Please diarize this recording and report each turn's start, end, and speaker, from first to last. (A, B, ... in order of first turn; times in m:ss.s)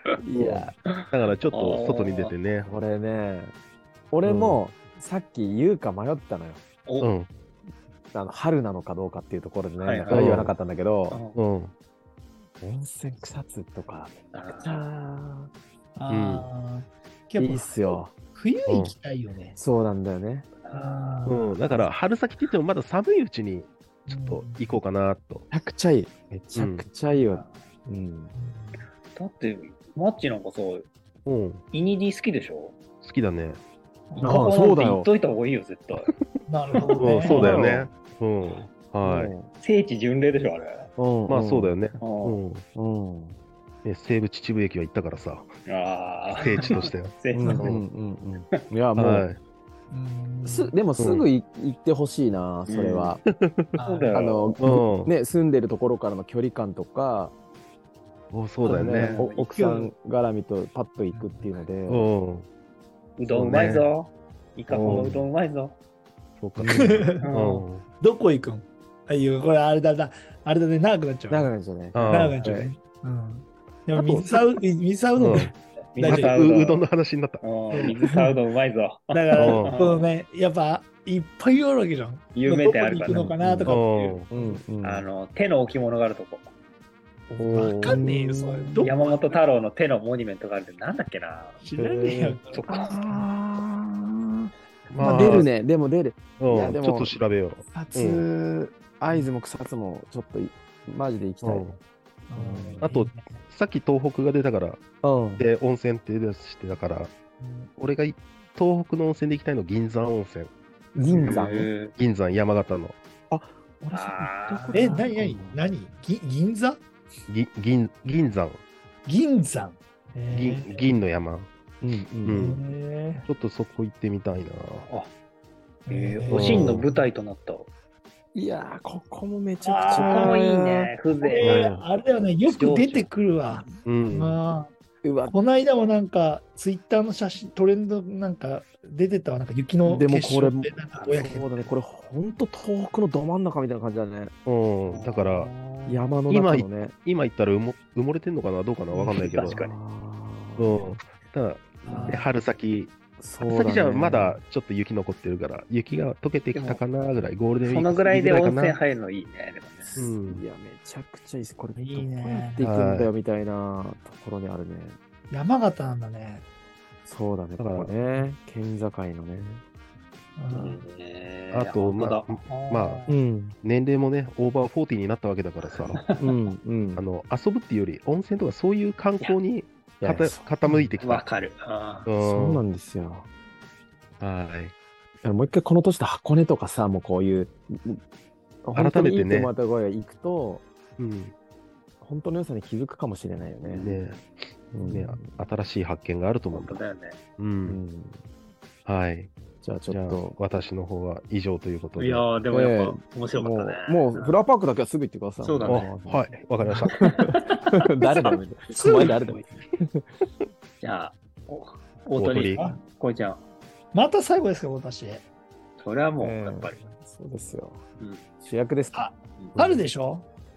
0:00.2-0:00.7 A
0:00.3-0:02.8 B
0:00.9-0:02.3 C
0:02.6-0:03.5 A
0:04.1-0:06.6 A
0:04.2-0:04.6 B
0:06.8-0:07.1 C
0:07.0-0:07.3 B
0:08.1-0:11.2 A
0:09.8-0:10.3 C
0:10.1-0:10.5 B
0:11.1-0:11.4 C
0:11.3-0:11.7 B
0:12.6-0:15.5 A
0:14.3-0:14.8 C
0:16.0-0:19.6 D
0:16.1-0:16.5 B
0:17.4-0:18.1 A
0:18.7-0:18.9 B
0:19.6-0:20.5 A
0:20.6-0:21.4 C
0:20.7-0:21.9 D
0:21.2-0:25.5 B
0:24.1-0:24.8 D
0:25.5-0:28.3 A
0:26.5-0:26.8 B
0:27.1-0:27.5 C
0:28.3-0:28.9 D
0:29.1-0:30.9 C
0:31.2-0:31.6 B
0:31.7-0:32.8 C
0:33.0-0:33.6 B
0:34.1-0:34.5 D
0:34.2-0:36.1 C
0:34.2-0:35.1 A
0:36.5-0:37.4 D
0:36.8-0:37.6 C
0:37.0-0:39.3 B
0:37.3-0:37.9 A
0:39.0-0:39.5 A
0:39.6-0:40.9 C
0:41.0-0:41.7 A
0:41.3-0:42.6 B
0:42.0-0:42.4 C
0:42.7-0:43.4 A
0:43.8-0:45.5 B
0:45.7-0:47.7 C
0:46.4-0:47.8 B
0:47.3-0:49.2 A
0:49.0-0:49.4 B
0:49.9-0:50.8 D
0:50.4-0:53.2 A
0:51.0-0:51.2 B
0:52.7-0:53.2 C
0:53.3-0:53.7 B
0:53.7-0:54.2 D
0:53.8-0:54.6 C
0:54.1-0:57.3 A
0:54.6-0:55.1 B
0:58.3-0:59.2 B
0:58.6-0:59.5 C
0:58.7-1:02.1 A
0:59.5-0:59.9 D
1:01.1-1:01.5 D
1:01.9-1:02.5 B
1:03.2-1:05.8 C
1:03.3-1:03.9 B
1:04.7-1:05.2 B
1:04.7-1:05.2 A
1:06.4-1:07.8 B
1:06.6-1:07.0 A
1:06.8-1:07.3 D
1:07.2-1:07.6 C
1:08.0-1:11.5 D
1:11.3-1:12.7 A
1:11.9-1:12.4 B
1:12.0-1:16.3 D
1:14.0-1:14.4 B
1:15.2-1:17.4 B
1:15.9-1:16.9 C
1:17.4-1:20.1 C
1:17.7-1:18.0 D
1:19.1-1:24.6 D
1:19.3-1:19.8 B
1:22.3-1:23.3 C
1:23.1-1:23.8 A
1:23.6-1:24.3 B
1:24.3-1:25.0 A
1:24.8-1:26.5 C
1:27.4-1:28.9 A
1:27.4-1:28.1 B
1:27.4-1:29.3 D
1:28.8-1:31.6 C
1:31.6-1:33.3 D
1:31.8-1:32.3 B
1:32.2-1:37.2 A
1:32.5-1:33.0 C
1:34.9-1:35.5 B
1:35.0-1:35.4 D
1:36.4-1:38.2 B
1:37.7-1:41.7 A
1:41.4-1:41.8 B
1:42.3-1:43.3 D
1:42.4-1:42.9 A
1:42.8-1:44.8 B
1:45.0-1:45.4 A
1:45.4-1:47.1 B
1:47.4-1:47.7 D
1:47.8-1:50.5 B
1:51.0-1:51.7 A
1:51.1-1:51.9 C
1:51.2-1:53.0 B
1:53.3-1:55.6 A
1:53.9-1:55.0 C
1:54.7-1:56.8 D
1:57.3-1:58.6 B
1:59.0-2:00.9 D
2:00.3-2:01.5 B
2:01.8-2:02.4 A
2:02.2-2:02.6 B
2:02.3-2:03.3 D
2:03.2-2:04.9 B
2:05.9-2:06.8 D
2:05.9-2:07.7 C
2:06.3-2:06.9 B
2:08.3-2:10.9 A
2:09.6-2:10.4 D
2:09.8-2:11.7 C
2:11.1-2:14.7 D
2:11.4-2:11.8 B
2:12.4-2:13.1 C
2:13.8-2:14.4 B
2:15.0-2:15.3 A
2:15.3-2:21.7 D
2:19.8-2:24.3 A
2:24.4-2:25.5 B
2:24.9-2:26.1 C
2:25.9-2:26.9 A
2:26.3-2:29.6 B
2:29.0-2:31.0 A
2:29.1-2:29.8 C
2:30.6-2:38.8 B
2:31.8-2:32.2 D
2:33.2-2:34.4 A
2:36.5-2:36.8 C
2:37.6-2:40.1 C
2:39.8-2:45.0 A
2:40.0-2:40.4 B
2:41.8-2:42.6 D
2:42.6-2:43.1 B
2:45.3-2:46.4 D
2:47.0-2:49.6 A
2:47.6-2:47.9 B
2:50.4-2:50.8 D
2:50.5-2:53.2 C
2:51.5-2:53.0 B
2:53.1-2:53.5 A
2:53.6-2:56.1 B
2:55.6-2:56.3 C
2:56.2-2:57.0 A
2:57.0-3:01.2 B
3:00.0-3:00.9 A
3:01.0-3:02.1 C
3:02.0-3:02.6 B
3:02.2-3:03.3 A
3:04.2-3:04.7 B
3:05.2-3:08.0 A
3:08.6-3:10.6 A
3:08.7-3:09.5 B
3:11.0-3:11.3 B
3:12.0-3:13.9 A
3:13.6-3:14.2 C
3:13.8-3:14.3 B
3:14.7-3:15.3 A
3:14.8-3:16.8 B
3:16.5-3:17.2 C
3:17.4-3:17.8 B
3:17.6-3:18.2 A
3:18.8-3:19.3 B
3:19.6-3:20.4 A
3:19.9-3:22.3 B
3:22.0-3:24.4 C
3:22.5-3:26.3 A
3:25.4-3:25.9 C
3:25.6-3:27.1 B
3:26.9-3:28.4 C
3:27.0-3:30.0 A
3:28.7-3:29.2 D
3:28.9-3:29.4 C
3:30.8-3:33.4 C
3:32.2-3:32.6 B
3:33.9-3:35.2 D
3:35.8-3:36.8 C
3:36.2-3:37.8 A
3:38.0-3:38.3 C
3:38.4-3:39.0 A
3:38.9-3:40.2 D